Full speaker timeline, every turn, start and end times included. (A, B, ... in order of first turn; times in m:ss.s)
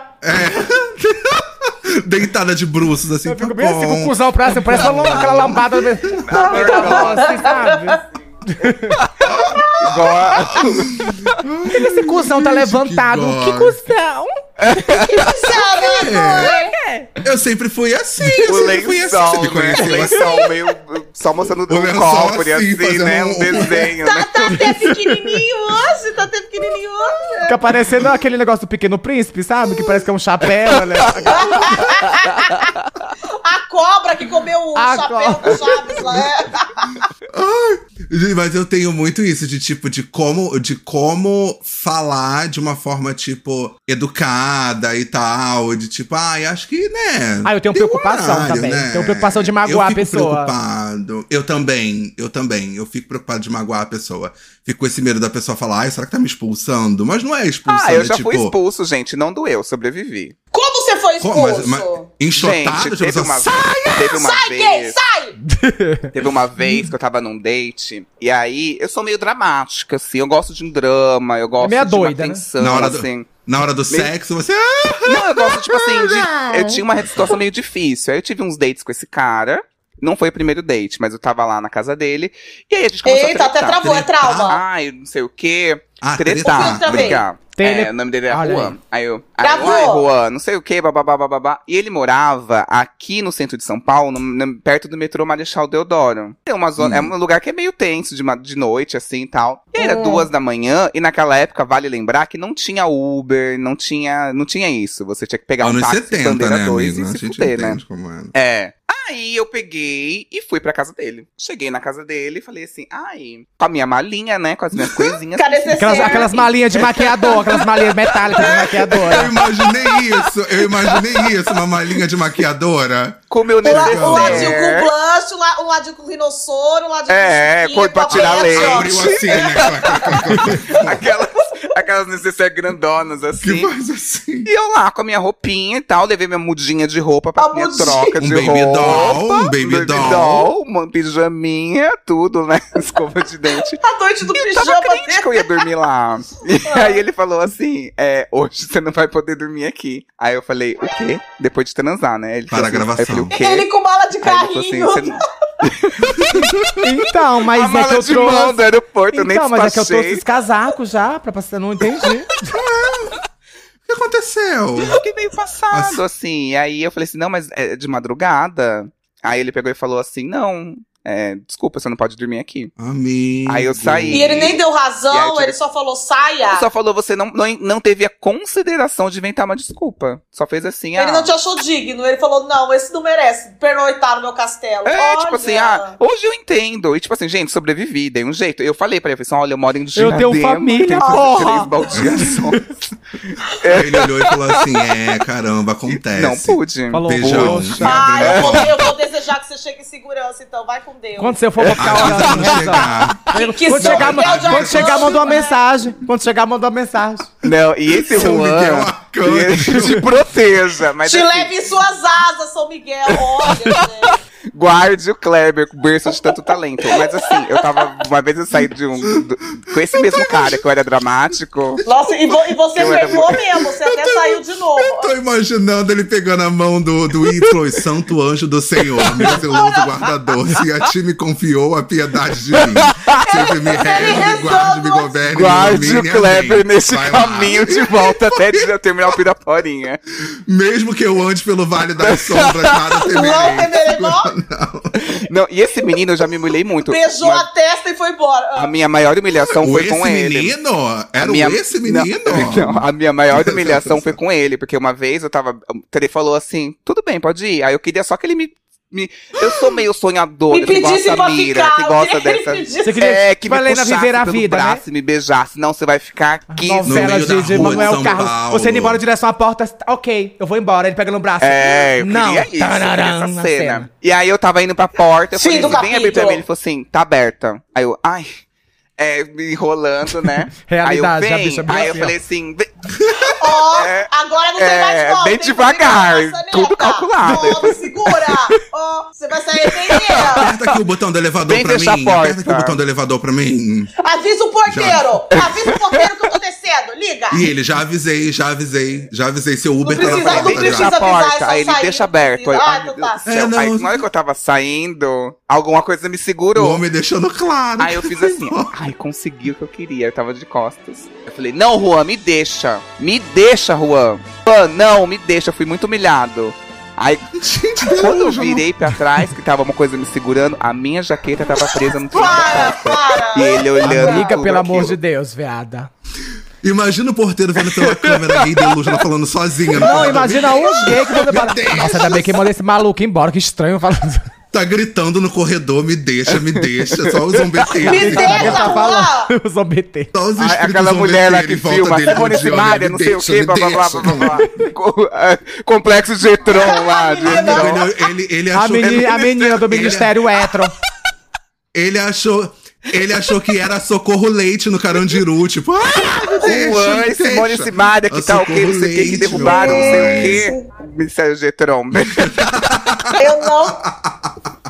0:00.2-0:06.2 A
0:03.2-0:09.0 B
0:06.2-0:07.6 C
0:06.3-0:08.0 D
0:08.9-0:09.3 C
0:09.2-0:13.8 A
0:09.4-0:10.6 D
0:09.8-0:11.4 C
0:11.7-0:15.4 B
0:14.6-0:15.5 C
0:15.2-0:16.8 D
0:15.8-0:16.5 A
0:16.4-0:17.1 B
0:17.2-0:20.4 A
0:18.4-0:24.6 C
0:21.7-0:23.9 A
0:23.6-0:27.6 D
0:24.6-0:25.3 B
0:27.4-0:31.8 B
0:30.9-0:32.6 C
0:31.3-0:32.7 D
0:33.4-0:37.0 D
0:34.7-0:35.6 B
0:37.3-0:58.5 A
0:47.4-0:50.5 B
0:57.7-1:00.3 C
1:00.5-1:02.0 D
1:01.2-1:04.2 A
1:02.3-1:05.0 C
1:04.0-1:05.4 D
1:05.4-1:06.1 B
1:06.1-1:13.3 C
1:11.6-1:12.4 B
1:12.6-1:16.3 A
1:15.0-1:47.8 C
1:23.0-1:24.6 D
1:23.8-1:24.6 A
1:26.0-1:27.2 A
1:26.4-1:27.2 D
1:27.6-1:28.7 B
1:29.4-1:30.0 D
1:36.8-1:37.1 A
1:39.8-1:40.2 D
1:45.6-1:48.3 A
1:48.3-1:58.6 C
1:54.7-1:55.1 A
1:55.4-1:56.3 D
1:55.8-1:59.3 B
1:58.4-1:58.7 D
1:59.0-2:04.6 A
2:03.3-2:04.9 C
2:03.6-2:10.2 D
2:07.1-2:13.7 C
2:08.1-2:11.0 A
2:13.4-2:14.5 A
2:14.4-2:23.8 C
2:17.4-2:18.2 D
2:18.2-2:20.5 A
2:18.8-2:19.2 D
2:23.5-2:25.6 D
2:24.3-2:33.7 C
2:26.7-2:27.0 D
2:32.5-2:33.3 A
2:33.3-2:35.2 D
2:34.2-2:36.6 C
2:36.1-2:36.6 A
2:36.8-2:38.6 B
2:37.5-2:40.2 C
2:39.1-2:42.3 B
2:42.4-2:43.2 A
2:43.8-2:45.0 A
2:44.9-2:52.7 C
2:45.7-2:46.0 A
2:52.8-2:54.6 A
2:53.4-2:54.6 C
2:54.1-2:56.7 D
2:55.1-2:55.6 C
2:56.5-3:01.3 C
3:01.0-3:05.9 D
3:04.8-3:12.6 C
3:10.0-3:12.6 B
3:11.0-3:11.9 D
3:11.9-3:12.4 A
3:13.2-3:15.0 C
3:13.7-3:18.9 A
3:15.9-3:18.8 C
3:16.9-3:18.2 B
3:17.8-3:21.4 D
3:21.2-3:27.3 B
3:21.6-3:24.1 C
3:21.8-3:23.2 A
3:23.3-3:25.6 D
3:23.8-3:25.2 A
3:27.4-3:31.5 C
3:27.9-3:30.1 A
3:31.0-3:34.2 D
3:33.1-3:41.8 C
3:39.9-3:40.6 A
3:41.8-3:45.1 D
3:42.7-3:58.7 A
3:42.8-3:43.4 C
3:49.0-3:49.4 C
3:49.5-3:49.8 D
3:52.5-3:54.3 C
3:53.3-3:55.2 D
3:55.3-4:00.0 C
4:00.3-4:05.0 A
4:02.0-4:03.1 C
4:03.0-4:04.3 D
4:05.0-4:07.4 C
4:06.8-4:08.7 D
4:08.6-4:10.5 C
4:09.5-4:14.2 A
4:11.2-4:28.1 C
4:19.4-4:19.8 A
4:20.5-4:23.0 D
4:22.8-4:24.8 B
4:26.5-4:33.9 B
4:26.8-4:29.0 A
4:31.4-4:38.3 C
4:35.3-4:36.4 D
4:39.0-4:42.7 C
4:40.6-4:42.1 B
4:43.0-4:43.4 A
4:43.2-4:48.5 C
4:43.4-4:50.5 D
4:49.6-4:50.8 C
4:50.2-4:53.9 A
4:51.4-4:52.8 C
4:54.0-4:57.5 D
4:54.7-4:55.1 A
4:55.4-4:56.0 C
4:57.3-5:00.9 A
4:59.8-5:03.2 D
5:00.0-5:06.8 C
5:03.2-5:04.0 A
5:06.5-5:08.7 A
5:07.8-5:25.0 C
5:17.3-5:19.0 A
5:22.1-5:24.3 D
5:23.8-5:25.9 B
5:26.6-5:32.4 A
5:27.6-5:29.0 C
5:29.8-5:34.3 B
5:29.9-5:30.3 C
5:34.5-5:38.8 A
5:36.3-5:38.5 C
5:37.8-5:39.3 D
5:37.9-5:40.1 B
5:40.1-5:44.4 A
5:40.4-5:47.9 C
5:46.4-5:47.8 D
5:47.2-5:50.1 A
5:48.5-5:50.7 B
5:48.8-5:50.0 C
5:51.7-6:00.5 A
5:56.4-6:03.1 C
5:59.3-6:00.6 D
6:02.2-6:04.5 A
6:03.2-6:03.8 D